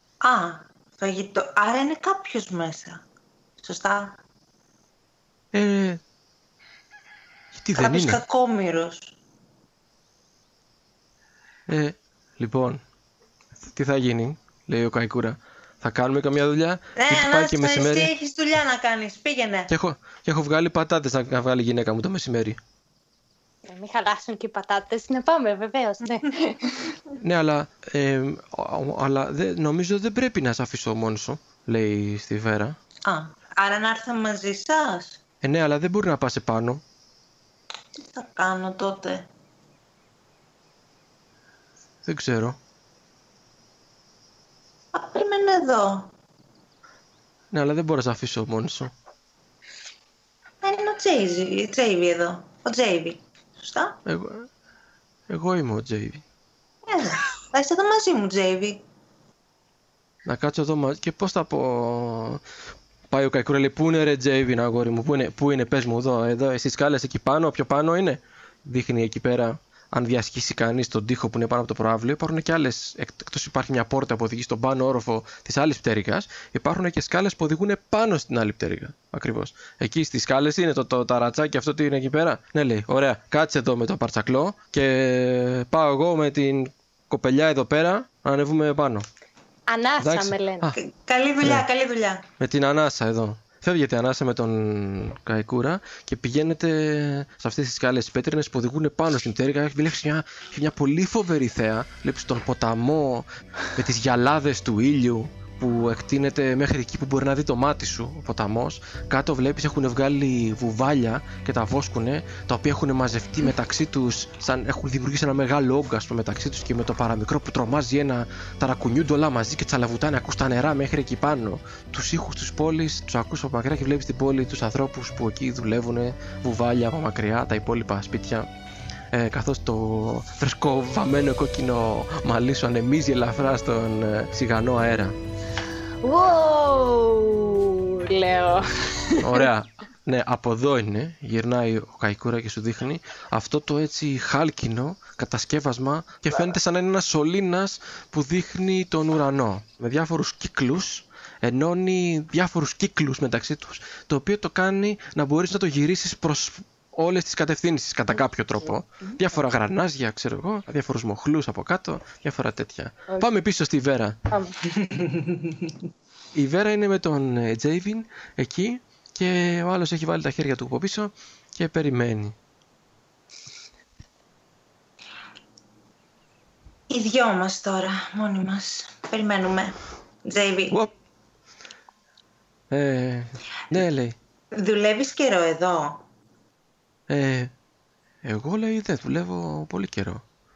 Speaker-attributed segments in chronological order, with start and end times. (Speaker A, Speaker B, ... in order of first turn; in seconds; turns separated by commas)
Speaker A: 0.2-3.0, Speaker A: 3.6-4.2, Speaker B: 5.5-6.0, Speaker B: 7.5-8.2, Speaker A: 7.8-9.2, Speaker B: 11.7-12.8, Speaker B: 13.6-18.1, Speaker A: 17.0-19.7, Speaker B: 19.7-22.6, Speaker C: 23.7-26.9, Speaker B: 27.2-32.8, Speaker A: 33.0-35.2, Speaker B: 35.4-36.8, Speaker A: 38.1-39.3, Speaker B: 42.0-42.6, Speaker A: 44.9-46.1, Speaker B: 47.5-48.9, Speaker A: 50.6-54.0, Speaker B: 54.1-54.5, Speaker B: 55.3-56.2, Speaker A: 56.9-58.8, Speaker B: 60.2-62.4, Speaker B: 63.1-89.0, Speaker C: 89.7-90.7, Speaker B: 90.0-90.8, Speaker A: 90.8-92.3, Speaker B: 92.4-128.5, Speaker B: 129.1-135.2, Speaker C: 136.0-139.5, Speaker B: 139.2-164.2, Speaker A: 164.7-165.7, Speaker B: 166.3-172.3, Speaker A: 176.9-180.8, Speaker B: 182.7-184.2, Speaker A: 184.5-186.0, Speaker B: 187.1-187.5, Speaker B: 188.2-190.2